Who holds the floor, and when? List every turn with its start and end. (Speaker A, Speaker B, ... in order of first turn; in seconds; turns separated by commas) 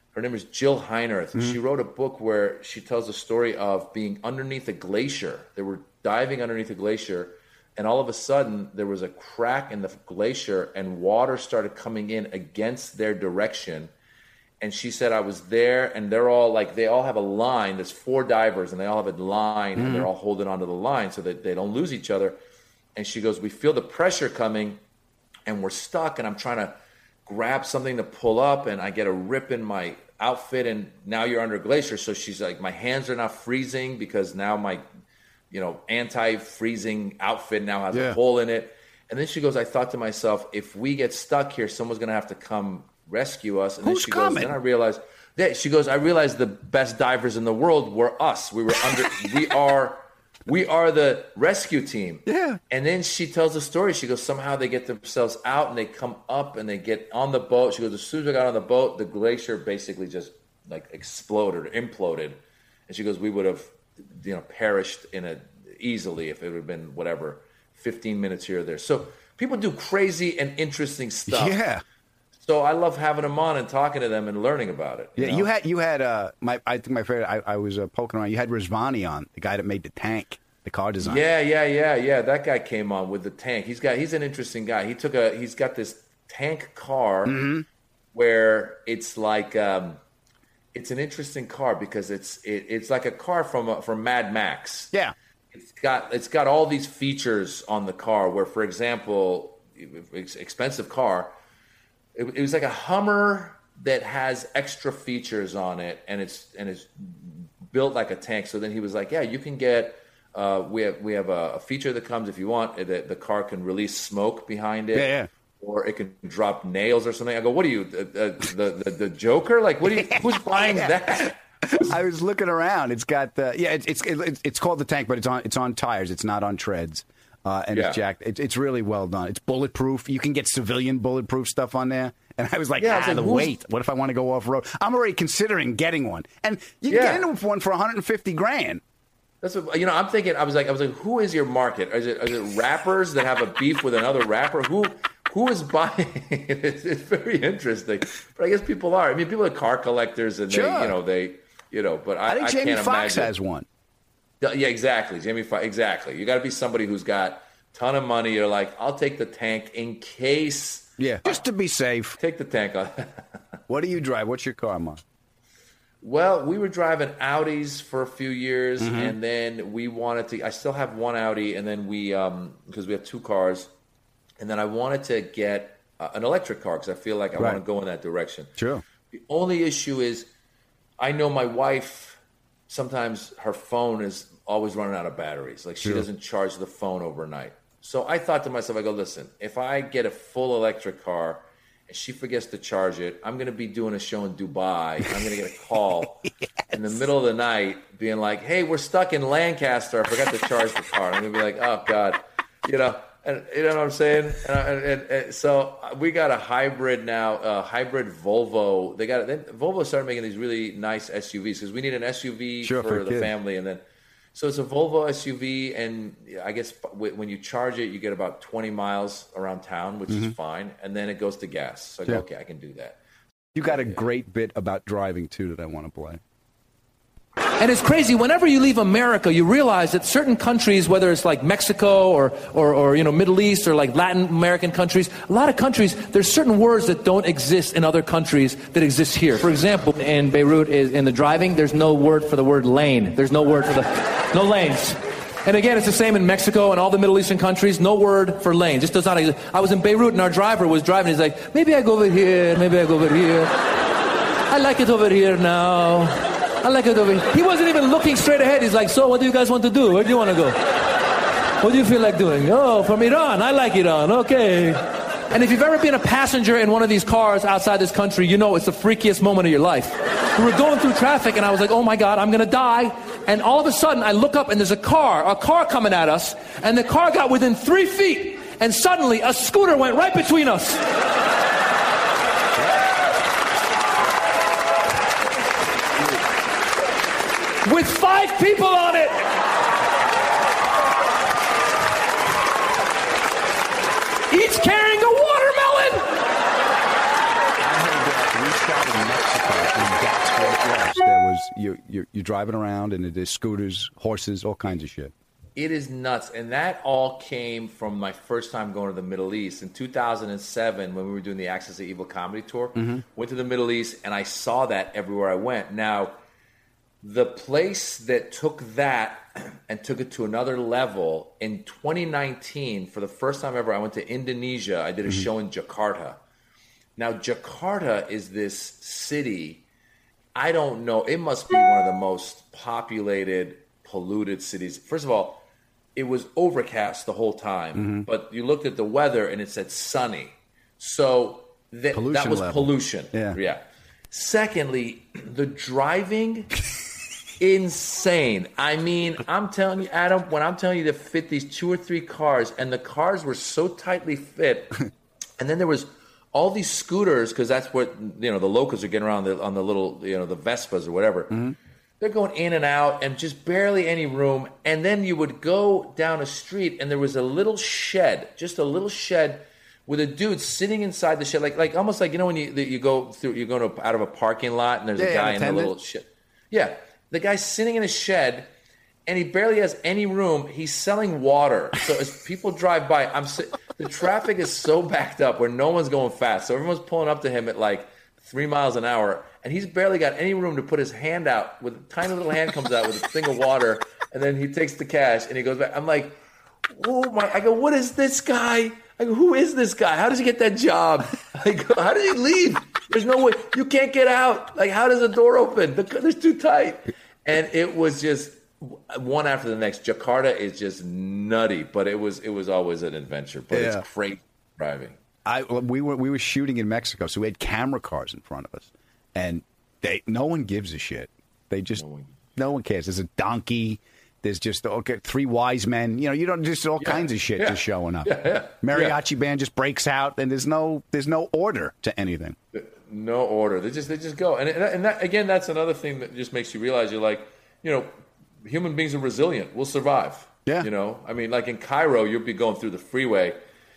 Speaker A: 0.1-13.9, Speaker A: 14.6-22.4, Speaker B: 19.8-20.1, Speaker A: 22.9-24.8, Speaker A: 25.4-34.9, Speaker A: 35.5-71.6, Speaker B: 37.9-38.2, Speaker B: 43.8-44.5, Speaker B: 52.3-52.6, Speaker B: 71.3-71.8, Speaker A: 72.4-75.5, Speaker B: 75.2-81.2, Speaker A: 81.0-87.5, Speaker B: 87.2-87.7, Speaker A: 88.1-90.0, Speaker A: 90.7-94.9, Speaker A: 95.5-101.3, Speaker A: 102.1-122.0, Speaker B: 114.9-115.3, Speaker B: 120.0-138.8, Speaker A: 127.7-128.0, Speaker A: 132.8-133.6, Speaker A: 136.9-137.2, Speaker A: 139.4-153.3, Speaker B: 150.5-151.0, Speaker B: 152.3-153.7, Speaker A: 154.4-161.4, Speaker B: 161.0-162.2, Speaker A: 162.2-163.3, Speaker B: 163.7-165.0, Speaker A: 166.0-173.7, Speaker B: 168.8-169.2, Speaker A: 174.4-178.5, Speaker B: 177.3-177.6, Speaker B: 178.6-178.8, Speaker A: 179.1-180.3, Speaker A: 181.0-213.8, Speaker B: 212.6-213.3, Speaker A: 214.3-223.0, Speaker B: 223.5-226.2, Speaker A: 223.6-224.0, Speaker C: 227.6-253.5, Speaker C: 254.5-260.6, Speaker C: 261.6-264.8, Speaker C: 265.3-280.8, Speaker C: 287.6-289.2, Speaker C: 294.3-296.1, Speaker B: 297.6-305.1, Speaker A: 305.6-316.2, Speaker B: 312.8-313.0, Speaker A: 317.0-326.2, Speaker A: 327.0-329.6, Speaker A: 330.3-335.4, Speaker A: 335.9-346.5, Speaker B: 337.7-338.1, Speaker B: 341.9-343.4, Speaker A: 347.4-354.8, Speaker A: 355.4-361.3, Speaker B: 361.3-361.6, Speaker A: 362.0-378.5, Speaker B: 375.0-375.7, Speaker A: 379.1-415.0, Speaker B: 413.5-413.8, Speaker B: 415.2-421.8, Speaker A: 421.8-422.1, Speaker B: 422.4-432.4, Speaker A: 426.8-429.0, Speaker A: 432.5-437.9, Speaker A: 438.4-443.4